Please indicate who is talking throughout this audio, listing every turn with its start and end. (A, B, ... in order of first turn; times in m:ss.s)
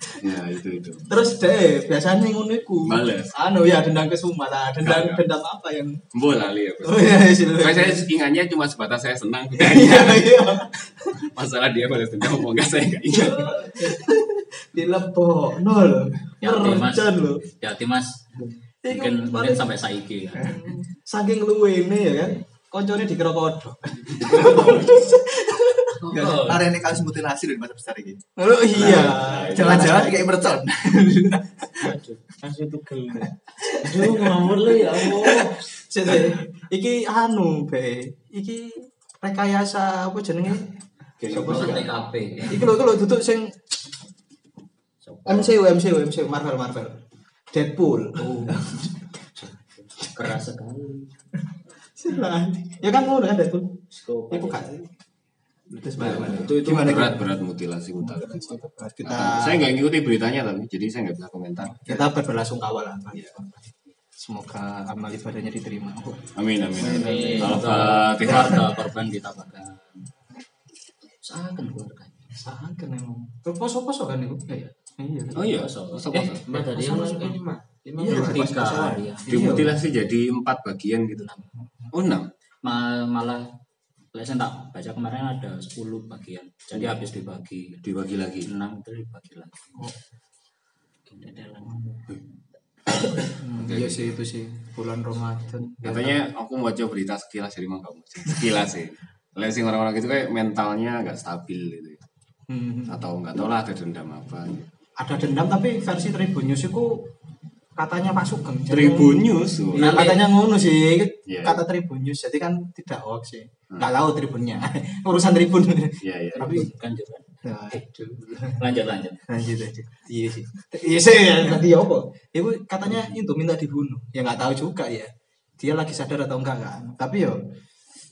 0:00.2-0:01.1 A
0:01.1-0:06.0 B
0:02.8-0:03.3 A
0:04.8-0:05.2 A
0:06.1-0:10.4 A
0:06.8-0:08.1 B
0:09.5-0:11.2 B
0:11.1-0:13.8 A
0:13.1-0:17.4 B
0:16.4-0:18.2 C
0:18.8-0:19.7 B
0:18.9-0:20.6 C
0:20.4-0:26.0 B
0:24.4-0:25.0 A
0:26.0-0:26.7 C
0:26.1-0:28.2 D
0:28.4-0:30.4 B
0:28.7-0:29.9 A
0:28.9-0:31.4 D
0:31.1-0:31.9 B
0:31.8-0:35.6 E
0:33.6-0:40.7 B
0:41.2-0:41.9 A
0:41.3-0:41.9 B
0:41.3-0:42.7 C
0:42.4-0:43.6 B
0:45.0-0:45.6 C
0:45.2-0:47.0 B
0:47.5-0:49.1 B
0:48.2-0:48.7 C
0:49.4-0:51.1 C
0:52.0-0:54.9 B
0:53.9-0:54.6 C
0:55.7-0:57.3 B
0:56.0-1:01.9 A
0:58.0-0:59.7 B
1:01.7-1:06.8 B
1:06.3-1:08.7 A
1:06.8-1:10.0 C
1:06.8-1:07.8 E
1:11.2-1:12.3 C
1:12.4-1:15.4 B
1:15.3-1:17.2 C
1:15.3-1:16.4 A
1:16.1-1:18.6 E
1:16.5-1:17.4 B
1:18.0-1:19.8 B
1:18.0-1:19.7 C
1:19.3-1:22.3 A
1:22.6-1:23.5 C
1:24.1-1:27.8 C
1:26.7-1:27.0 A
1:27.8-1:28.5 A
1:28.4-1:29.8 C
1:31.1-1:31.7 C
1:33.2-1:36.2 B
1:33.6-1:34.1 A
1:35.8-1:42.0 A
1:42.5-1:43.0 B
1:42.9-1:44.7 A
1:45.0-1:47.1 B
1:47.8-1:56.7 B
1:48.7-1:50.1 A
1:49.7-1:50.2 C
1:51.3-1:51.6 A
1:56.0-1:56.5 A
1:56.3-1:57.8 C
1:57.4-1:58.6 B
1:58.5-1:59.2 C
1:59.3-2:07.4 B